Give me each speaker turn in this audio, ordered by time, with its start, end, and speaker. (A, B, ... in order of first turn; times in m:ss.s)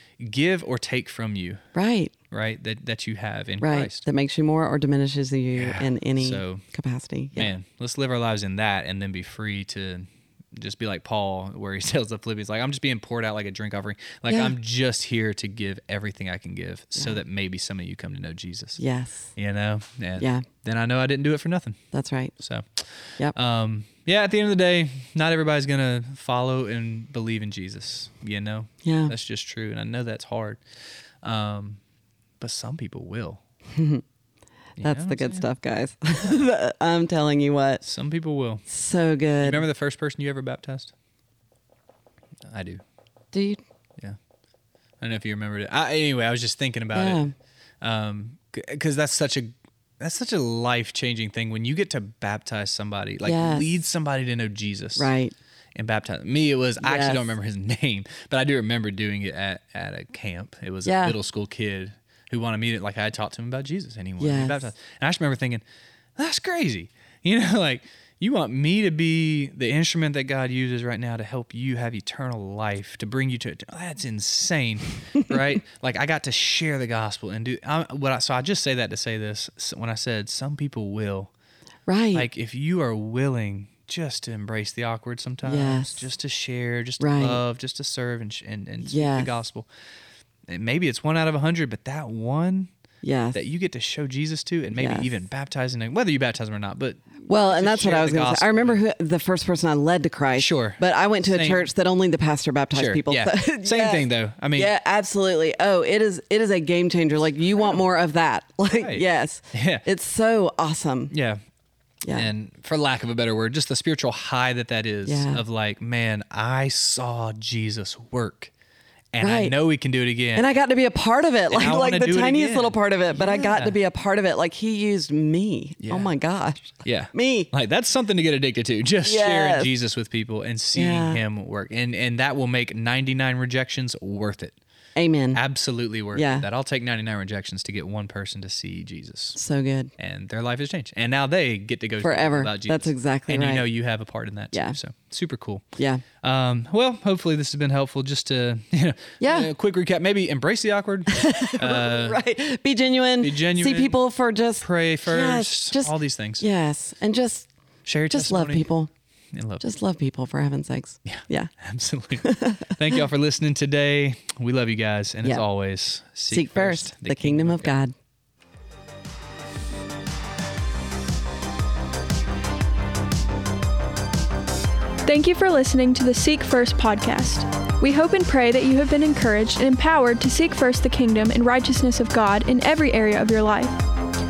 0:00.2-0:01.6 A
0:01.8-0:02.1 B
0:02.3-0:04.0 A
0:03.6-0:07.5 B
0:05.6-0:06.6 A
0:07.4-0:18.8 A
0:14.3-0:14.5 B
0:18.8-0:19.3 B
0:19.4-0:21.8 A
0:20.2-0:20.5 B
0:21.9-0:22.3 B
0:22.4-0:30.6 A
0:28.8-0:29.1 B
0:31.2-0:31.8 A
0:32.4-0:33.4 A
0:33.7-0:34.0 B
0:34.8-0:35.5 A
0:34.8-0:37.8 B
0:37.8-0:38.7 A
0:38.7-0:39.6 B
0:39.4-0:40.9 A
0:42.4-0:42.8 A
0:43.3-0:43.6 B
0:45.0-0:47.2 A
0:46.9-0:47.3 B
0:47.8-0:55.1 A
0:53.2-0:53.7 B
0:55.0-0:55.3 B
0:55.8-1:05.6 A
0:56.8-0:57.3 B
1:00.8-1:01.2 B
1:04.2-1:04.7 B
1:06.2-1:21.3 A
1:21.9-1:22.3 B
1:22.1-1:29.7 A
1:25.4-1:26.0 B
1:27.0-1:27.4 B
1:28.8-1:29.3 B
1:30.5-1:32.7 A
1:33.0-1:33.4 B
1:33.3-1:38.8 A
1:34.8-1:35.1 B
1:37.3-1:51.1 B
1:40.4-1:41.7 A
1:42.7-1:44.7 A
1:48.7-1:49.8 A
1:51.1-1:51.4 A
1:52.1-1:58.5 A
1:55.1-1:55.4 B
1:59.1-2:00.5 A
1:59.2-1:59.6 B
2:00.4-2:07.5 B
2:01.5-2:03.8 A
2:05.8-2:06.1 A
2:06.8-2:14.6 A
2:09.0-2:09.7 B
2:10.8-2:11.2 B
2:15.0-2:15.4 B
2:15.3-2:19.4 A
2:16.1-2:16.5 B
2:19.4-2:19.9 B
2:20.0-2:25.7 A
2:22.0-2:23.7 B
2:25.8-2:26.0 B
2:26.2-2:32.2 A
2:29.2-2:29.5 B
2:31.1-2:37.5 B
2:33.2-2:34.0 A
2:34.6-2:36.4 A
2:37.9-2:38.7 A
2:38.1-2:38.9 B
2:39.3-2:39.6 A
2:39.6-2:41.5 B
2:41.1-2:47.8 A
2:42.2-2:43.0 B
2:46.3-2:47.9 B
2:55.0-3:03.8 C